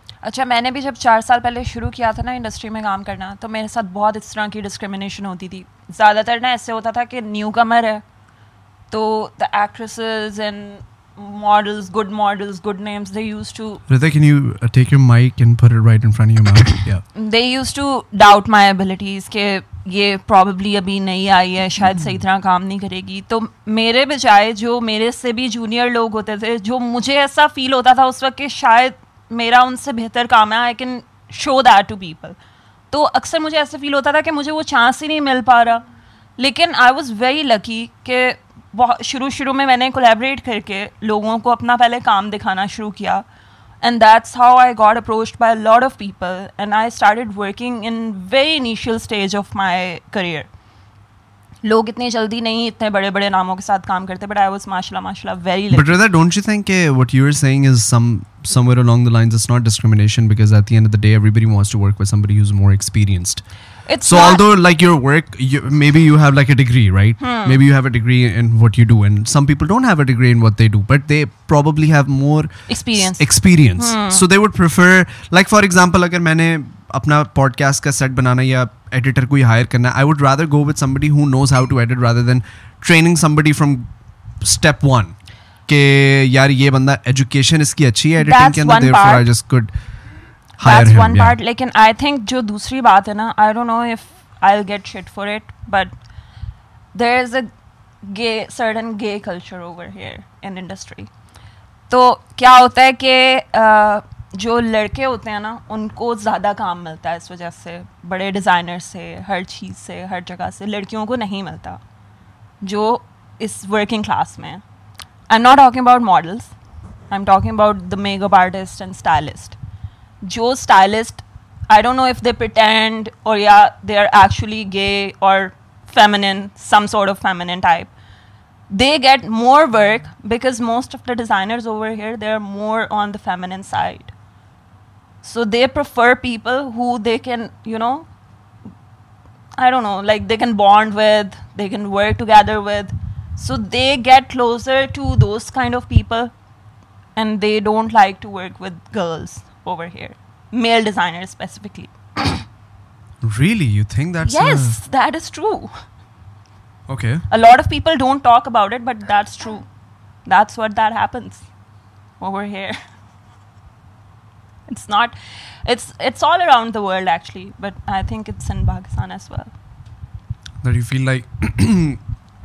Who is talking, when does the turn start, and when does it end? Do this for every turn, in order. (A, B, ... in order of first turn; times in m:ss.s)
0:00.2-0:08.0 A
0:08.9-0:13.8 A
0:13.9-0:17.0 B
0:17.1-0:32.4 A
0:21.9-0:22.2 B
0:32.9-0:35.8 A
0:36.4-0:43.2 A
0:43.8-0:50.5 A
0:51.6-0:56.0 A
0:55.7-1:03.4 B
1:03.9-1:04.4 A
1:04.0-1:23.9 B
1:07.2-1:07.6 A
1:12.7-1:14.2 A
1:24.4-1:25.1 B
1:25.7-1:29.7 B
1:28.2-1:29.2 A
1:30.6-1:31.4 B
1:30.6-1:35.9 A
1:36.9-1:37.5 A
1:38.0-1:41.1 A
1:41.9-1:51.8 A
1:52.6-1:54.6 A
1:55.3-1:56.5 A
1:57.1-1:59.6 A
2:00.2-2:07.9 A
2:08.7-2:14.1 A
2:15.2-2:18.1 A
2:19.6-2:26.3 A
2:27.2-2:32.4 A
2:33.2-2:34.8 B
2:34.2-2:35.8 A
2:36.9-2:37.2 B
2:37.3-2:39.7 A
2:40.3-2:41.5 A
2:42.2-2:42.8 A
2:44.7-2:49.5 A
2:50.6-2:52.0 B